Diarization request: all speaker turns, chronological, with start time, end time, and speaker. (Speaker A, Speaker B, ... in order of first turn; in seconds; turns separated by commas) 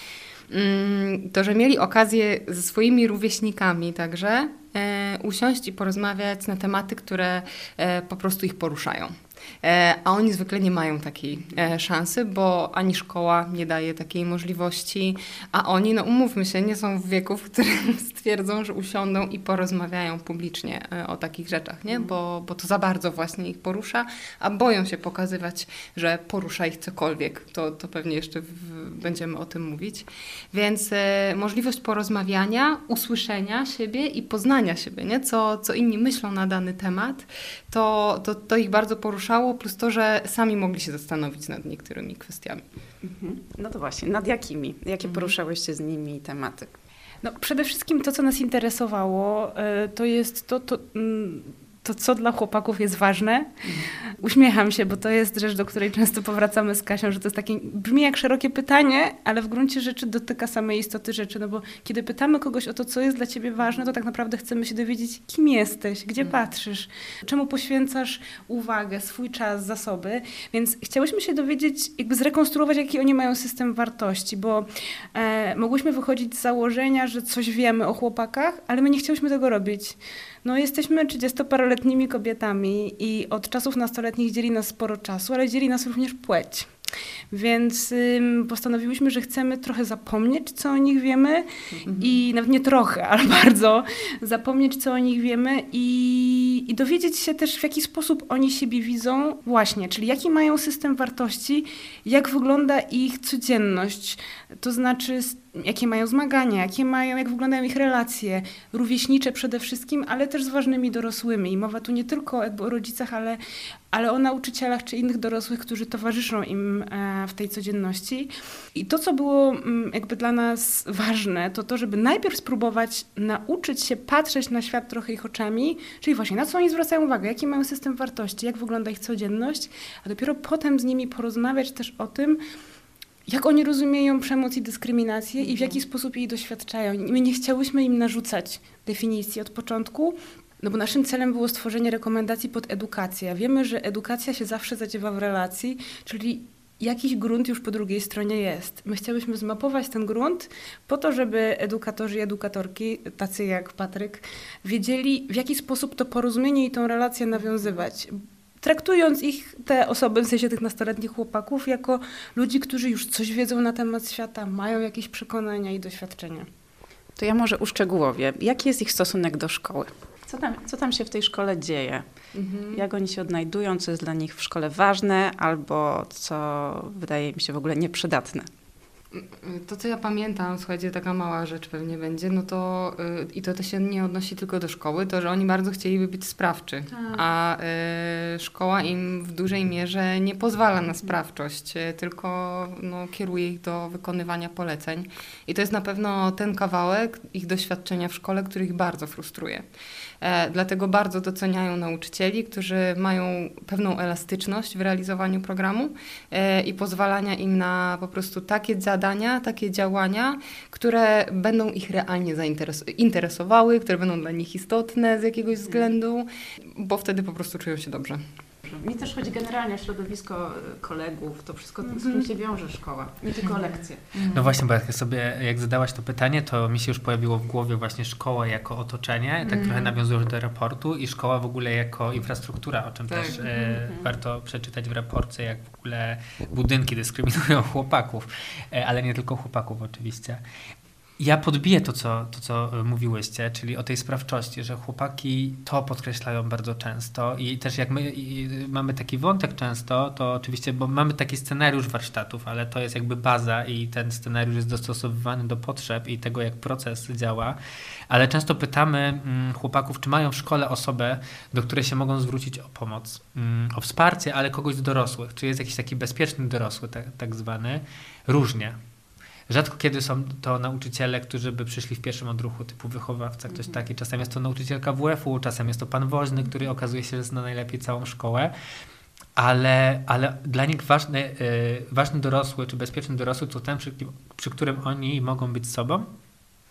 Speaker A: 0.5-42.6, Speaker B: 43.0-46.7, Speaker A: 45.0-45.3, Speaker C: 47.2-86.7, Speaker B: 53.6-53.9, Speaker C: 87.3-113.4, Speaker A: 91.9-92.1, Speaker C: 113.9-132.4, Speaker C: 133.3-166.5, Speaker B: 167.2-172.0, Speaker A: 172.3-172.8, Speaker B: 172.7-178.5, Speaker A: 179.1-199.6, Speaker C: 186.9-187.2, Speaker A: 200.2-218.2, Speaker B: 215.6-215.9, Speaker B: 218.6-224.2, Speaker C: 221.9-222.2, Speaker A: 224.2-224.4, Speaker D: 224.3-240.4, Speaker A: 233.1-233.4, Speaker B: 233.4-234.1, Speaker D: 241.2-257.6, Speaker D: 258.1-268.8, Speaker D: 269.5-278.5, Speaker B: 273.5-273.8, Speaker D: 279.4-286.1